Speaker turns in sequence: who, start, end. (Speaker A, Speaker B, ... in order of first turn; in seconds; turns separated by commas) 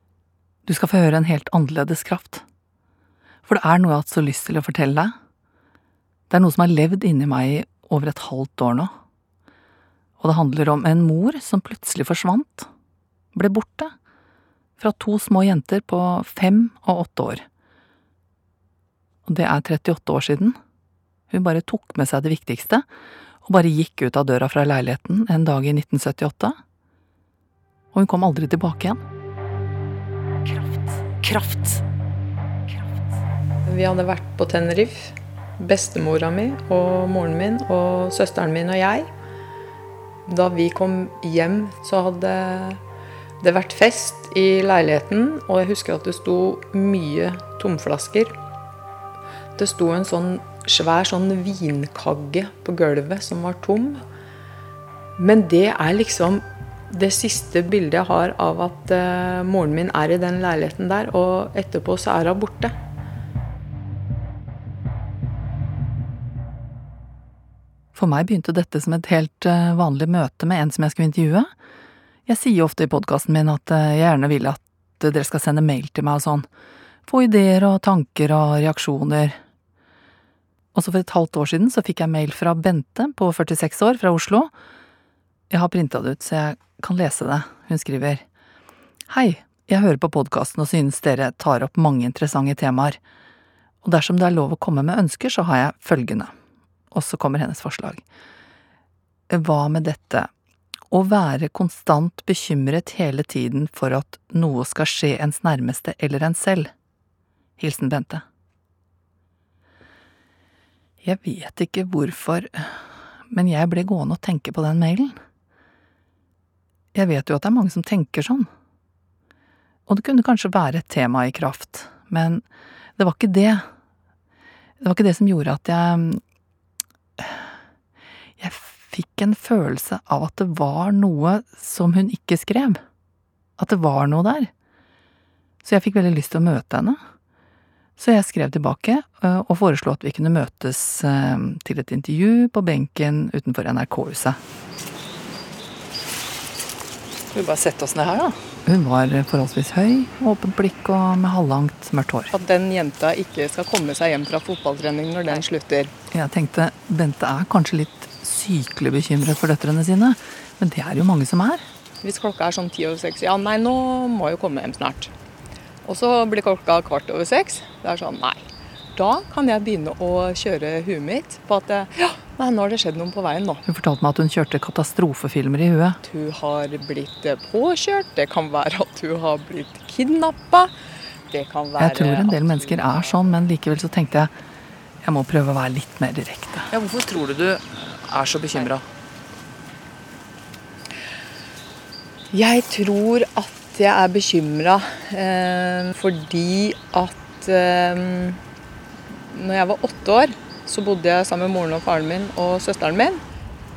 Speaker A: 0.7-2.4, Speaker A: 3.5-5.2, Speaker A: 6.3-8.9, Speaker A: 10.2-12.7, Speaker A: 13.3-13.9, Speaker A: 14.8-17.5, Speaker A: 19.3-20.6, Speaker A: 21.3-22.9, Speaker A: 23.4-26.6, Speaker A: 27.9-29.0, Speaker B: 30.5-31.8, Speaker C: 33.7-39.1, Speaker C: 40.3-42.8, Speaker B: 40.5-41.2, Speaker B: 41.7-42.5, Speaker C: 43.4-48.3, Speaker B: 43.6-44.2, Speaker B: 45.0-46.1, Speaker C: 49.6-54.0, Speaker B: 52.0-52.6, Speaker C: 55.2-62.7, Speaker B: 55.7-56.1, Speaker A: 68.0-71.5, Speaker A: 72.3-76.5, Speaker A: 77.1-79.4, Speaker A: 80.7-84.5, Speaker A: 85.5-88.2, Speaker A: 89.1-93.0, Speaker A: 93.8-96.3, Speaker A: 96.9-98.0, Speaker A: 99.3-100.3, Speaker A: 100.9-106.7, Speaker A: 107.6-108.2, Speaker A: 111.0-115.2, Speaker A: 117.0-118.5, Speaker A: 119.9-122.5, Speaker A: 123.0-123.7, Speaker A: 124.8-126.2, Speaker A: 127.2-127.5, Speaker A: 128.4-132.8, Speaker A: 133.6-134.5, Speaker A: 135.6-137.0, Speaker A: 138.0-144.4, Speaker A: 147.3-152.3, Speaker C: 152.4-155.9, Speaker A: 156.1-161.7, Speaker C: 162.0-165.1, Speaker C: 165.8-168.4, Speaker C: 169.0-173.6, Speaker A: 173.7-176.0, Speaker C: 176.0-180.7, Speaker C: 181.3-182.8, Speaker A: 181.8-184.3, Speaker A: 185.0-188.8, Speaker C: 192.3-198.4, Speaker C: 199.3-203.2